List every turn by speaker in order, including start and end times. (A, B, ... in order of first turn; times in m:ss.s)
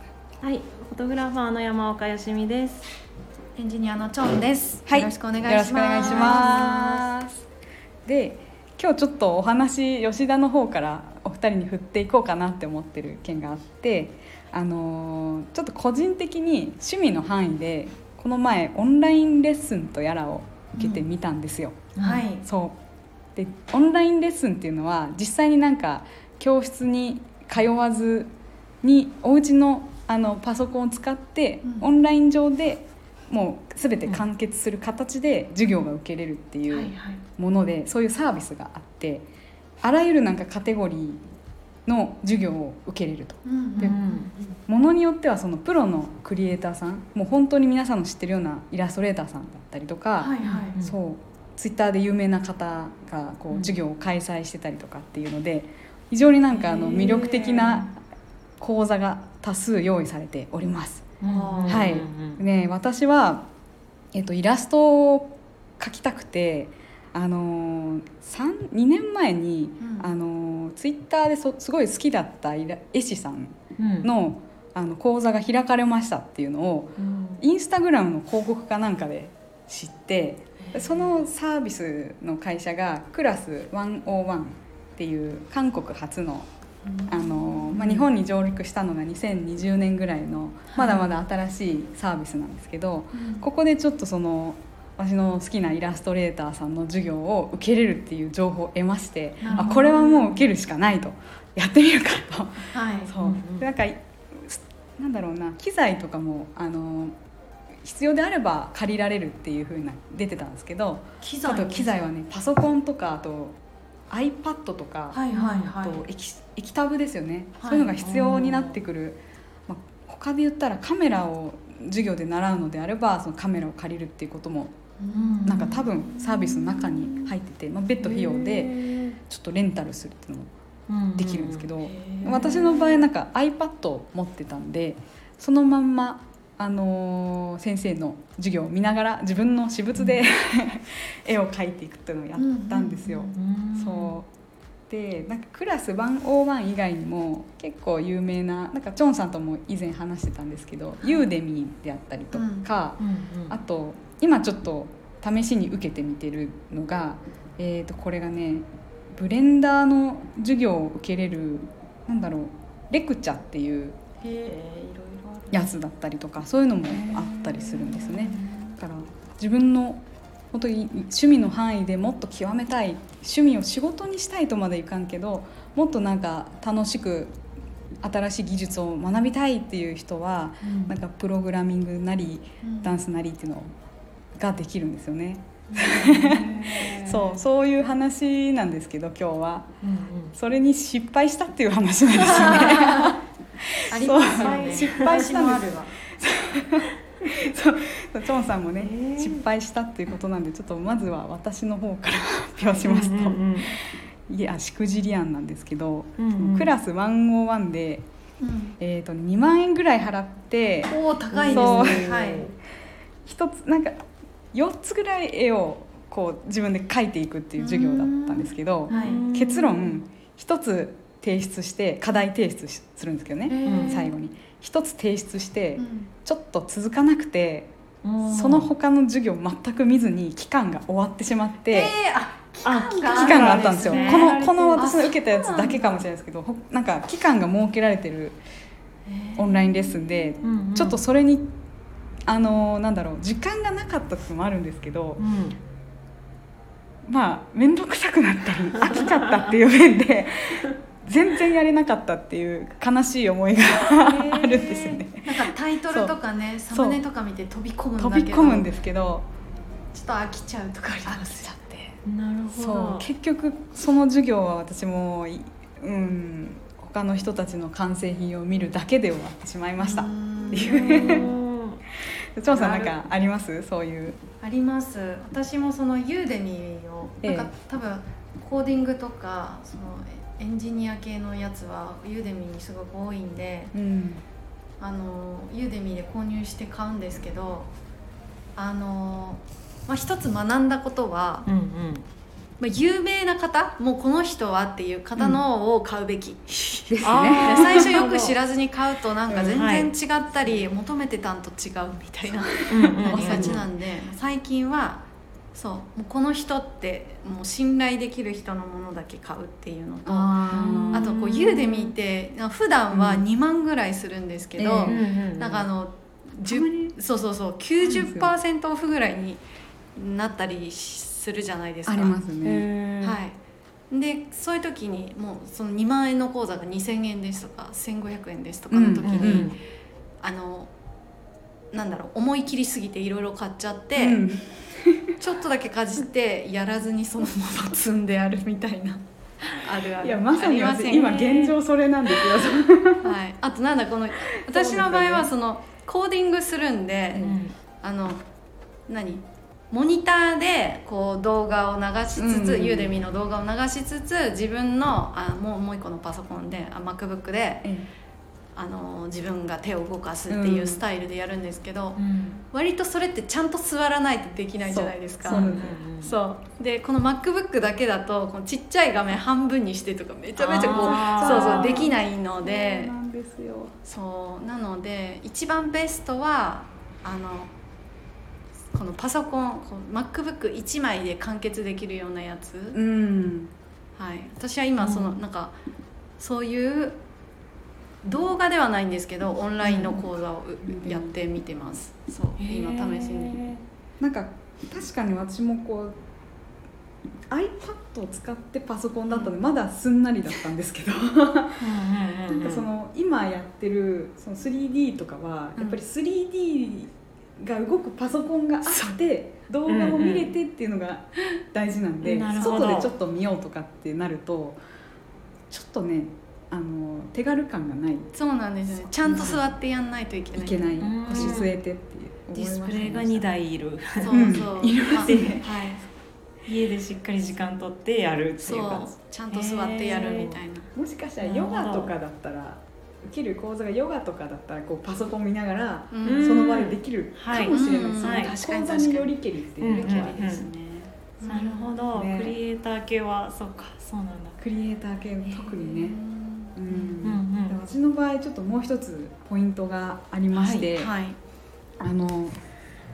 0:00.4-0:02.9 A
0:03.5-0:07.1 B
0:04.9-0:07.4 C
0:06.0-0:06.6 A
0:08.0-0:22.8 C
0:20.8-0:21.0 A
0:22.0-0:22.2 A
0:22.0-0:22.4 B
0:23.3-0:28.3 C
0:28.8-0:39.2 C
0:31.6-0:31.9 B
0:36.7-0:37.2 B
0:39.8-0:41.2 C
0:41.8-0:44.0 C
0:43.4-0:44.5 B
0:43.8-0:44.3 A
0:44.7-0:58.0 C
0:50.2-0:50.8 B
0:50.4-0:51.0 A
0:53.5-0:53.8 A
0:56.5-0:57.9 A
0:58.6-1:01.1 C
1:01.2-1:02.4 A
1:01.2-1:01.9 B
1:01.7-1:03.5 C
1:04.1-1:26.5 C
1:09.8-1:10.1 B
1:13.8-1:14.1 A
1:17.0-1:17.4 A
1:20.6-1:21.0 B
1:26.8-1:27.8 B
1:27.1-1:47.1 C
1:27.7-1:28.1 A
1:33.1-1:33.4 B
1:39.4-1:39.9 B
1:39.4-1:40.4 A
1:42.7-1:43.1 B
1:43.2-1:43.6 A
1:47.8-1:53.6 C
1:51.2-1:51.9 B
1:54.1-2:04.8 C
1:55.1-1:56.0 B
1:55.3-1:55.7 A
1:57.6-1:57.9 B
1:58.0-1:58.8 A
2:05.0-2:05.8 B
2:05.1-2:07.3 A
2:05.4-2:10.5 C
2:08.0-2:09.2 A
2:10.9-2:11.7 A
2:11.1-2:24.3 C
2:11.8-2:13.0 B
2:12.3-2:12.6 A
2:22.4-2:23.3 B
2:23.3-2:24.2 A
2:24.9-2:44.0 C
2:32.3-2:32.7 B
2:33.0-2:33.6 A
2:44.2-2:45.7 B
2:45.5-2:57.4 C
2:46.9-2:48.6 A
2:58.0-3:03.7 C
3:00.6-3:00.9 A
3:02.6-3:02.9 B
3:04.4-3:09.8 C
3:05.7-3:07.4 A
3:09.8-3:10.3 A
3:10.3-3:15.7 C
3:12.2-3:13.1 B
3:13.9-3:15.9 B
3:14.3-3:15.2 A
3:16.2-3:28.0 C
3:18.8-3:19.4 A
3:22.7-3:23.8 A
3:26.2-3:26.7 A
3:28.4-3:28.8 B
3:28.8-3:32.1 C
3:30.8-3:32.5 B
3:31.3-3:32.5 A
3:33.2-3:47.7 C
3:37.6-3:39.2 B
3:38.9-3:40.0 A
3:43.4-3:44.1 B
3:43.6-3:44.1 A
3:45.8-3:46.1 B
3:48.0-3:48.7 A
3:48.2-3:51.9 C
3:51.7-3:56.0 B
3:52.6-3:55.0 A
3:53.1-3:58.4 C
3:59.0-3:59.9 B
3:59.4-4:01.5 C
4:00.4-4:01.0 A
4:02.3-4:05.2 C
4:05.2-4:05.6 A
4:07.0-4:16.1 C
4:14.0-4:15.0 A
4:15.2-4:18.7 B
4:16.7-4:17.0 C
4:18.0-4:19.3 C
4:19.9-4:21.5 B
4:21.0-4:22.0 C
4:22.0-4:23.1 A
4:22.5-4:31.2 C
4:29.8-4:31.3 B
4:30.5-4:31.8 A
4:32.4-4:34.2 C
4:32.5-4:33.0 A
4:34.4-4:43.7 B
4:37.2-4:37.5 C
4:43.7-4:44.2 C
4:44.8-4:47.7 B
4:48.5-4:51.5 B
4:51.4-4:52.0 A
4:52.6-5:19.4 B
4:56.9-4:58.0 C
4:57.0-4:58.4 A
4:59.3-4:59.6 C
4:59.5-4:59.9 A
5:02.4-5:03.6 C
5:02.7-5:03.6 A
5:10.0-5:11.1 C
5:10.5-5:11.9 A
5:12.9-5:13.2 C
5:14.6-5:15.0 C
5:14.8-5:15.7 A
5:16.4-5:17.0 C
5:17.8-5:18.3 C
5:19.9-5:22.2 B
5:21.8-5:22.6 C
5:22.4-5:23.2 A
5:23.0-5:23.4 B
5:23.9-5:29.6 B
5:28.7-5:29.5 C
5:29.0-5:29.6 A
5:30.2-5:30.7 B
5:31.7-5:34.2 B
5:34.0-5:35.2 C
5:35.2-5:41.2 B
5:40.0-5:43.1 C
5:40.9-5:41.5 A
5:43.0-5:47.2 B
5:44.4-5:45.3 C
5:47.1-5:47.4 C
5:47.2-5:47.5 A
5:47.8-5:48.2 B
5:48.9-5:57.7 B
5:52.1-5:52.9 C
5:58.5-6:12.9 B
6:00.3-6:00.8 C
6:02.0-6:02.4 A
6:04.6-6:05.8 C
6:05.2-6:06.1 A
6:10.4-6:11.9 A
6:10.5-6:13.7 C
6:13.8-6:17.5 B
6:18.7-6:22.8 B
6:22.7-6:23.5 C
6:24.0-6:25.6 B
6:24.8-6:25.2 A
6:26.2-6:27.0 B
6:28.0-6:33.4 B
6:29.6-6:30.1 C
6:30.6-6:31.1 C
6:32.4-6:33.6 A
6:34.0-6:36.0 C
6:37.3-6:41.7 C
6:41.6-6:42.7 A
6:42.3-6:54.6 C
6:45.6-6:45.8 B
6:48.6-6:49.0 B
6:49.7-6:50.3 A
6:52.0-6:52.9 A
6:55.5-6:58.1 C
6:58.1-7:01.4 B
6:58.8-6:59.4 C
7:00.3-7:03.3 C
7:00.8-7:01.5 A
7:02.3-7:04.4 A
7:04.0-7:05.8 B
7:04.1-7:05.5 C
7:04.9-7:05.4 A
7:06.4-7:10.4 A
7:08.4-7:10.7 B
7:10.7-7:20.3 C
7:11.2-7:11.9 A
7:15.9-7:16.4 B
7:16.0-7:18.3 A
7:17.3-7:19.2 B
7:19.6-7:20.5 A
7:19.7-7:21.8 B
7:21.3-7:24.4 A
7:21.9-7:22.4 C
7:24.4-7:26.0 C
7:25.2-7:27.0 B
7:26.5-7:30.9 C
7:27.0-7:27.6 A
7:30.3-7:30.7 A
7:30.7-7:31.2 B
7:31.8-7:32.4 C